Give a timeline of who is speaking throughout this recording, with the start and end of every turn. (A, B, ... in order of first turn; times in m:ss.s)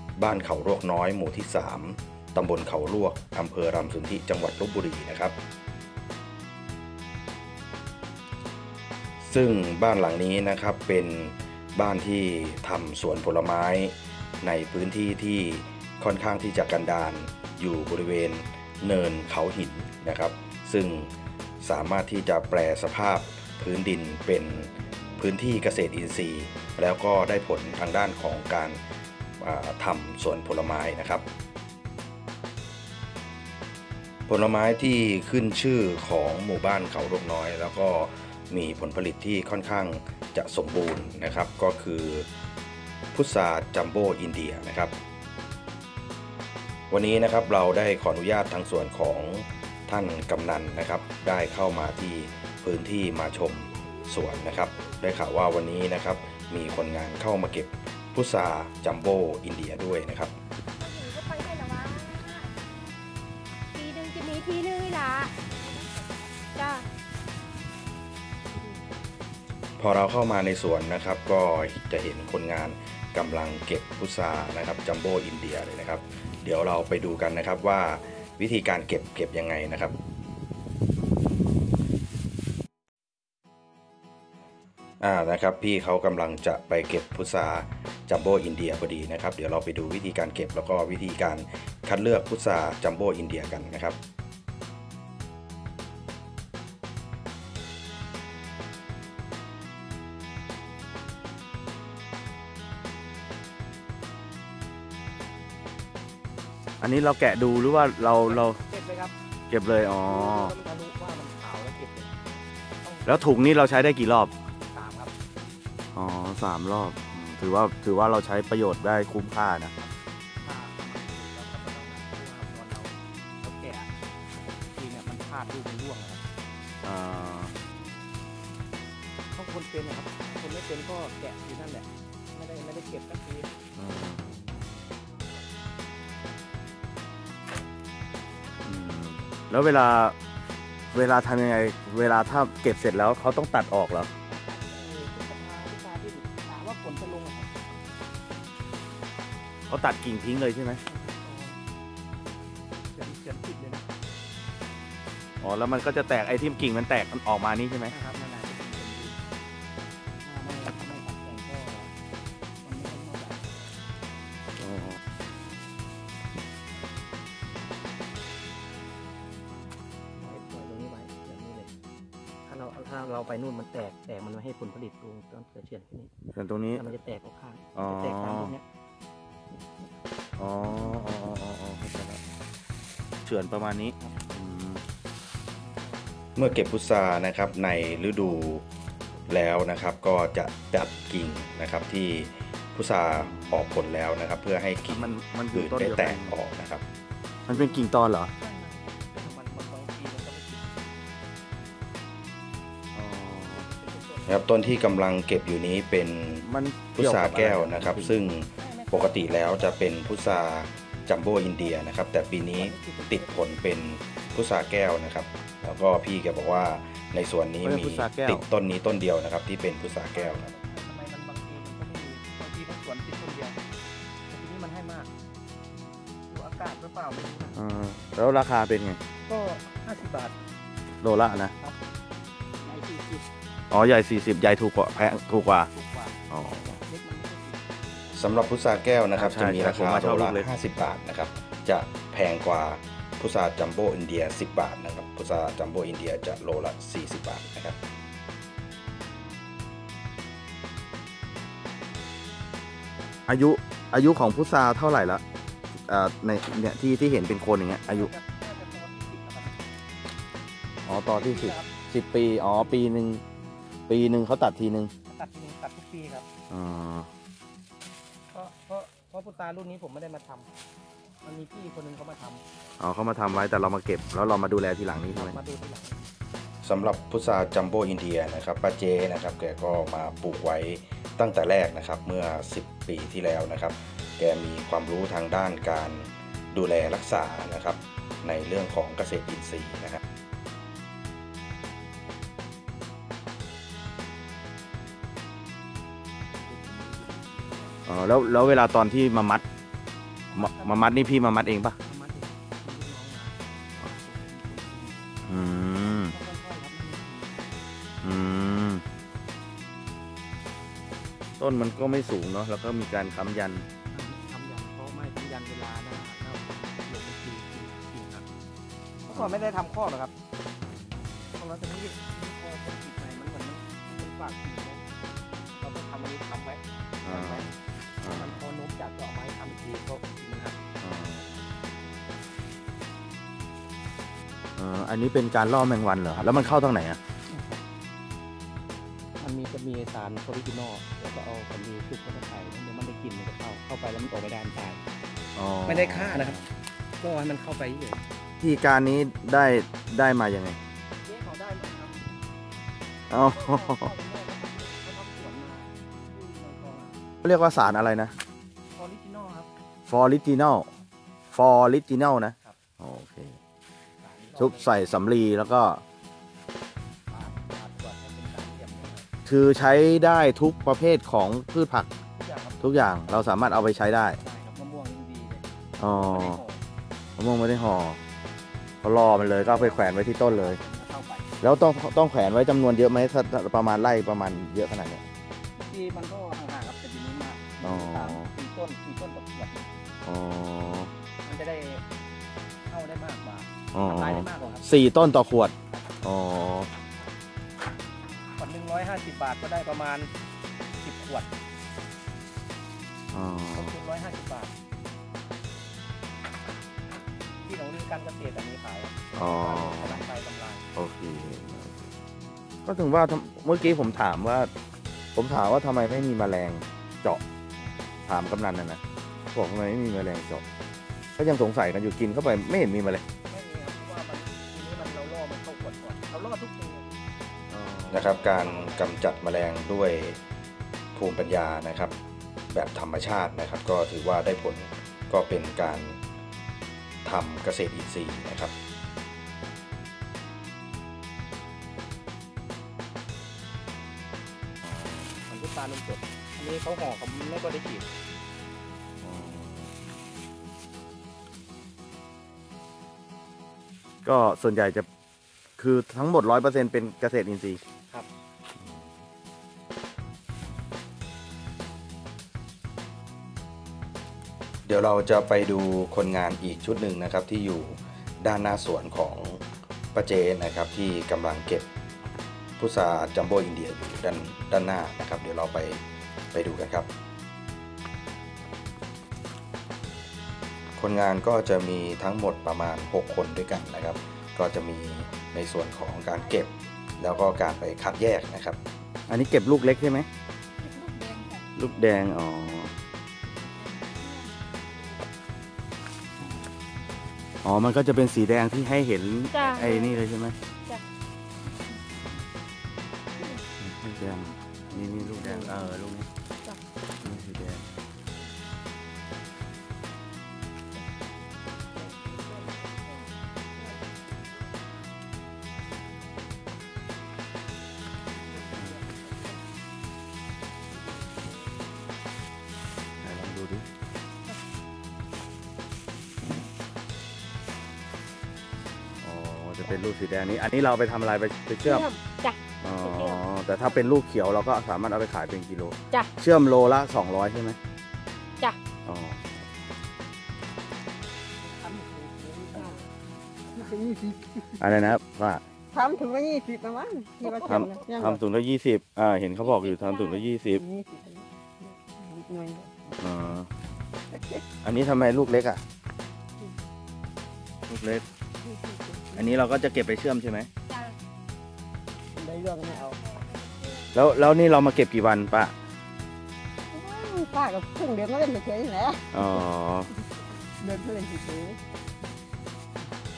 0:00.2-0:05.4 A
0:09.2-0:28.8 A
0:29.4-0:31.2 A
0:34.3-0:42.3 A
0:43.1-0:45.0 A
0:46.9-1:00.3 A
1:00.8-1:02.5 B
1:03.7-1:05.8 B
1:06.5-1:06.9 B
1:09.8-1:20.0 A
1:25.0-1:34.0 A
1:46.8-1:48.6 C
1:48.2-1:49.1 D
1:49.5-1:50.5 C
1:50.0-1:53.4 D
1:53.1-1:54.3 C
1:54.7-1:55.1 D
1:56.0-1:59.7 C
1:59.8-2:03.9 D
2:04.7-2:06.2 D
2:06.8-2:07.5 C
2:09.3-2:13.5 D
2:13.8-2:14.4 C
2:18.7-2:20.2 C
2:20.9-2:24.1 C
2:24.3-2:27.5 D
2:29.7-2:30.8 C
2:30.9-2:31.6 D
2:32.9-2:33.9 D
2:35.4-2:37.9 C
2:37.9-2:39.2 D
2:40.2-2:41.9 D
2:42.6-2:43.7 D
2:44.6-2:45.0 C
2:50.2-2:51.7 D
2:52.5-2:56.1 D
2:56.4-2:56.8 C
2:56.7-2:58.6 D
2:57.8-2:58.5 C
3:00.4-3:02.2 C
3:00.6-3:01.0 D
3:03.2-3:04.8 C
3:05.6-3:06.0 D
3:06.4-3:08.6 A
3:09.3-3:16.8 A
3:13.1-3:13.8 C
3:14.9-3:16.3 C
3:17.5-3:18.3 C
3:17.5-3:20.9 D
3:23.0-3:23.7 C
3:23.5-3:24.4 D
3:24.3-3:40.5 A
3:26.4-3:28.2 C
3:28.6-3:31.8 D
3:32.4-3:33.5 D
3:37.6-3:38.4 C
3:40.1-3:43.6 D
3:44.3-3:45.1 D
3:46.3-3:47.6 D
3:47.6-3:49.0 C
3:49.3-3:50.4 D
3:51.0-3:51.5 C
3:52.6-3:53.2 D
3:53.7-3:55.7 C
3:55.6-3:56.2 D
3:56.3-3:56.8 C
3:56.8-3:58.6 D
3:58.2-4:07.8 A
3:59.1-4:00.5 C
4:13.3-4:15.2 C
4:15.9-4:18.1 C
4:17.8-4:19.8 D
4:20.9-4:23.2 C
4:21.1-4:21.7 D
4:22.5-4:22.8 D
4:23.9-4:24.9 C
4:25.1-4:26.3 D
4:26.5-4:27.1 C
4:28.3-4:30.5 D
4:31.2-4:32.4 D
4:32.8-4:35.4 C
4:35.1-4:36.1 D
4:36.6-4:50.0 A
4:56.4-4:57.8 D
4:57.9-4:59.4 C
5:00.3-5:01.0 D
5:00.4-5:01.8 C
5:01.8-5:05.0 D
5:05.3-5:06.1 C
5:06.1-5:07.4 D
5:08.0-5:08.8 C
5:11.4-5:13.6 C
5:13.9-5:18.3 D
5:19.1-5:20.1 D
5:21.3-5:24.8 D
5:25.6-5:27.5 D
5:27.0-5:28.4 C
5:28.0-5:30.6 D
5:30.8-5:31.4 C
5:34.6-5:37.0 C
5:36.2-5:36.6 D
5:37.3-5:37.6 D
5:39.2-5:44.8 D
5:45.4-5:46.4 C
5:45.6-5:46.4 D
5:47.0-5:48.0 D
5:48.4-5:50.6 C
5:51.0-5:52.1 D
5:53.1-5:53.9 C
5:53.1-5:57.0 D
5:57.2-5:58.1 C
5:58.7-5:59.5 D
5:59.9-6:00.7 C
6:01.3-6:03.4 C
6:04.0-6:04.7 D
6:04.4-6:05.8 C
6:07.1-6:09.1 D
6:09.3-6:11.9 C
6:12.1-6:13.3 D
6:12.6-6:14.2 C
6:14.2-6:16.6 D
6:15.8-6:16.4 C
6:17.2-6:18.0 C
6:18.8-6:20.6 C
6:19.4-6:21.4 D
6:21.4-6:25.0 C
6:25.6-6:29.7 D
6:27.6-6:28.3 C
6:30.0-6:30.9 C
6:31.2-6:31.8 D
6:32.7-6:34.7 D
6:33.7-6:36.7 C
6:38.4-6:40.1 D
6:40.8-6:41.3 D
6:43.1-6:43.7 C
6:43.5-6:44.5 D
6:47.4-6:50.7 D
6:49.2-6:50.0 C
6:50.8-6:51.9 C
6:52.7-6:54.5 C
6:55.2-6:57.2 C
6:58.1-6:58.8 C
6:59.3-7:00.4 C
7:01.2-7:03.0 C
7:03.3-7:07.0 D
7:07.5-7:08.2 C
7:07.9-7:10.2 A
7:08.2-7:08.9 D
7:11.0-7:11.9 A
7:12.5-7:16.0 A
7:17.0-7:18.5 A
7:24.6-7:25.1 C
7:25.2-7:27.9 D
7:29.0-7:29.7 C
7:34.0-7:34.9 C
7:35.6-7:37.6 C
7:44.7-7:49.4 A
7:50.0-7:51.7 A
7:52.6-7:55.8 A
7:56.3-7:56.9 A
8:00.8-8:08.6 A
8:09.1-8:10.1 C
8:10.8-8:11.4 B
8:11.6-8:12.7 C
8:17.4-8:20.4 C
8:19.3-8:20.1 B
8:23.6-8:26.1 C
8:27.0-8:27.6 C
8:38.3-8:39.1 D
8:43.0-8:43.7 C
8:49.0-8:51.9 C
8:51.6-8:53.2 B
8:52.6-8:57.6 C
8:58.9-8:59.4 C
9:01.4-9:02.8 D
9:03.7-9:04.2 E
9:04.6-9:05.4 C
9:05.7-9:08.2 E
9:07.4-9:10.6 C
9:09.6-9:10.2 B
9:10.6-9:12.7 E
9:13.0-9:13.5 C
9:14.6-9:15.6 C
9:17.7-9:18.0 C
9:18.5-9:19.3 E
9:19.1-9:20.5 C
9:20.7-9:21.0 B
9:22.2-9:23.0 E
9:22.6-9:23.9 B
9:23.9-9:25.5 C
9:26.7-9:29.0 E
9:29.1-9:29.9 C
9:30.6-9:31.6 E